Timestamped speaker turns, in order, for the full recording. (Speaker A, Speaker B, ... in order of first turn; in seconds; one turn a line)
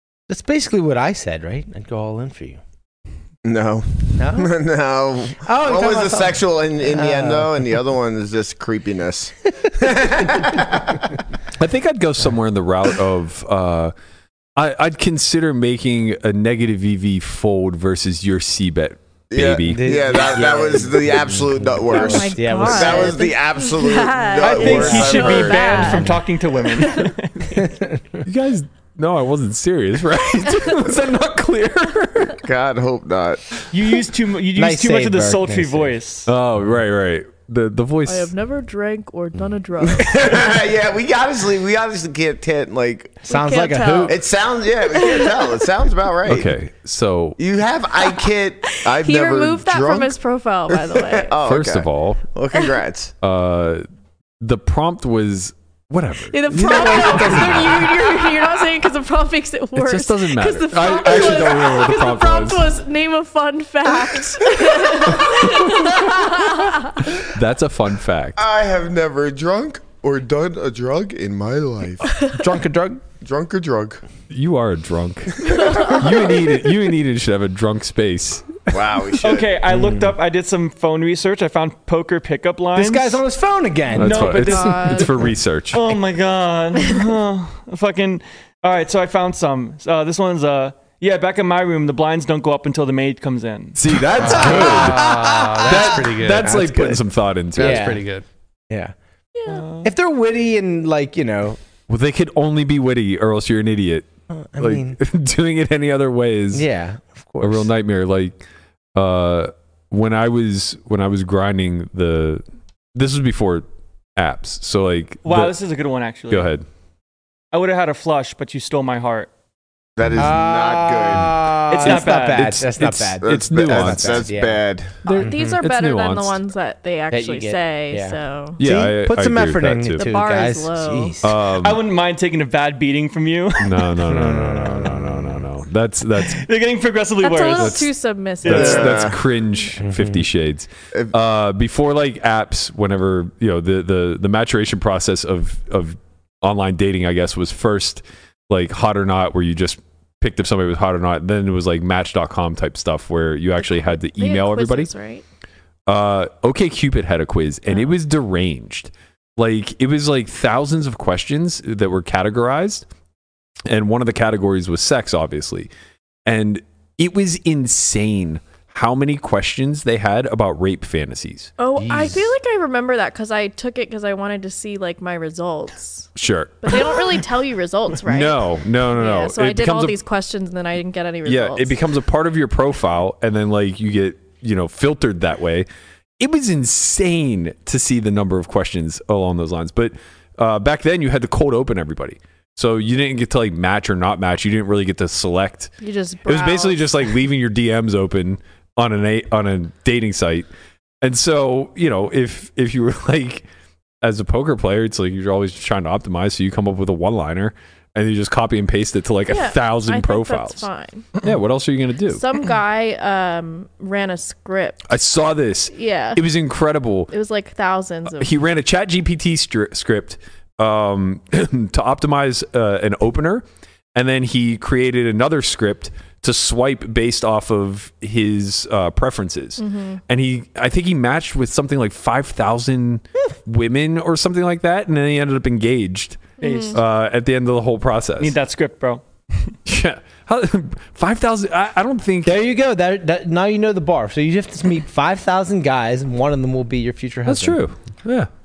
Speaker A: 0.3-2.6
Speaker B: 3.4-11.1
Speaker A: 4.2-4.5
Speaker A: 5.4-7.6
Speaker A: 10.3-10.6
Speaker C: 11.6-13.9
Speaker C: 14.6-20.0
Speaker B: 19.3-26.0
Speaker A: 19.6-23.3
Speaker D: 21.9-26.1
Speaker E: 24.4-27.7
Speaker A: 24.6-26.2
Speaker A: 27.6-28.2
Speaker C: 28.2-32.4
Speaker B: 32.4-33.5
Speaker E: 33.7-36.3
Speaker A: 34.5-36.0
Speaker C: 36.3-38.3
Speaker D: 38.0-40.2
Speaker B: 39.8-43.2
Speaker D: 43.2-44.1
Speaker A: 43.3-44.2
Speaker B: 44.0-46.5
Speaker D: 44.9-45.5
Speaker C: 46.2-47.4
Speaker B: 47.4-50.1
Speaker D: 48.0-51.3
Speaker B: 50.7-53.1
Speaker C: 51.4-52.2
Speaker C: 53.2-53.9
Speaker C: 54.4-58.3
Speaker D: 56.3-67.1
Speaker C: 59.7-62.7
Speaker C: 65.2-68.4
Speaker B: 68.4-72.2
Speaker A: 72.3-73.0
Speaker B: 73.2-74.0
Speaker C: 74.3-78.7
Speaker D: 75.5-76.3
Speaker B: 75.5-75.9
Speaker B: 78.7-79.5
Speaker E: 79.2-83.2
Speaker A: 79.7-80.1
Speaker A: 82.8-84.5
Speaker C: 83.9-85.9
Speaker E: 84.0-85.2
Speaker D: 84.5-85.1
Speaker E: 85.7-93.8
Speaker C: 93.8-98.0
Speaker F: 94.2-96.6
Speaker A: 94.2-97.0
Speaker F: 97.5-98.2
Speaker A: 97.5-98.0
Speaker A: 98.7-98.9
Speaker D: 99.3-99.6
Speaker E: 99.5-99.9
Speaker A: 99.8-101.6
Speaker C: 101.9-104.1
Speaker A: 104.3-105.0
Speaker C: 104.6-106.7
Speaker A: 106.5-107.7
Speaker C: 107.4-108.4
Speaker C: 108.9-112.4
Speaker C: 112.9-115.5
Speaker E: 115.2-116.5
Speaker C: 116.3-116.7
Speaker E: 117.5-119.3
Speaker B: 120.0-121.5
Speaker A: 120.1-124.6
Speaker E: 121.7-122.6
Speaker C: 121.8-124.3
Speaker B: 123.2-125.0
Speaker C: 125.0-126.4
Speaker D: 125.0-128.6
Speaker A: 125.2-125.6
Speaker A: 127.1-131.3
Speaker C: 128.6-130.1
Speaker D: 130.0-131.1
Speaker C: 131.2-131.8
Speaker E: 131.6-133.9
Speaker C: 133.6-136.4
Speaker A: 134.1-135.4
Speaker E: 136.2-137.8
Speaker D: 137.2-139.1
Speaker C: 137.5-137.9
Speaker E: 138.4-139.0
Speaker C: 138.4-154.9
Speaker B: 138.5-139.2
Speaker A: 139.8-140.2
Speaker D: 153.6-155.2
Speaker C: 155.9-162.8
Speaker D: 157.7-157.9
Speaker C: 163.7-165.7
Speaker C: 166.2-172.3
Speaker D: 171.6-176.1
Speaker C: 176.2-177.0
Speaker D: 176.6-181.8
Speaker C: 178.0-180.0
Speaker C: 181.2-185.7
Speaker C: 186.2-195.7
Speaker D: 195.8-197.1
Speaker C: 196.2-200.5
Speaker C: 201.0-203.4
Speaker C: 204.0-210.7
Speaker D: 209.3-211.1
Speaker C: 211.2-212.2
Speaker D: 212.1-214.8
Speaker C: 214.9-217.1
Speaker D: 215.7-216.2
Speaker D: 217.1-218.3
Speaker C: 218.1-238.4
Speaker D: 229.6-230.0
Speaker D: 236.4-236.8
Speaker E: 236.4-236.8
Speaker E: 238.2-239.5
Speaker C: 239.7-242.3
Speaker A: 242.2-247.6
Speaker C: 247.2-248.3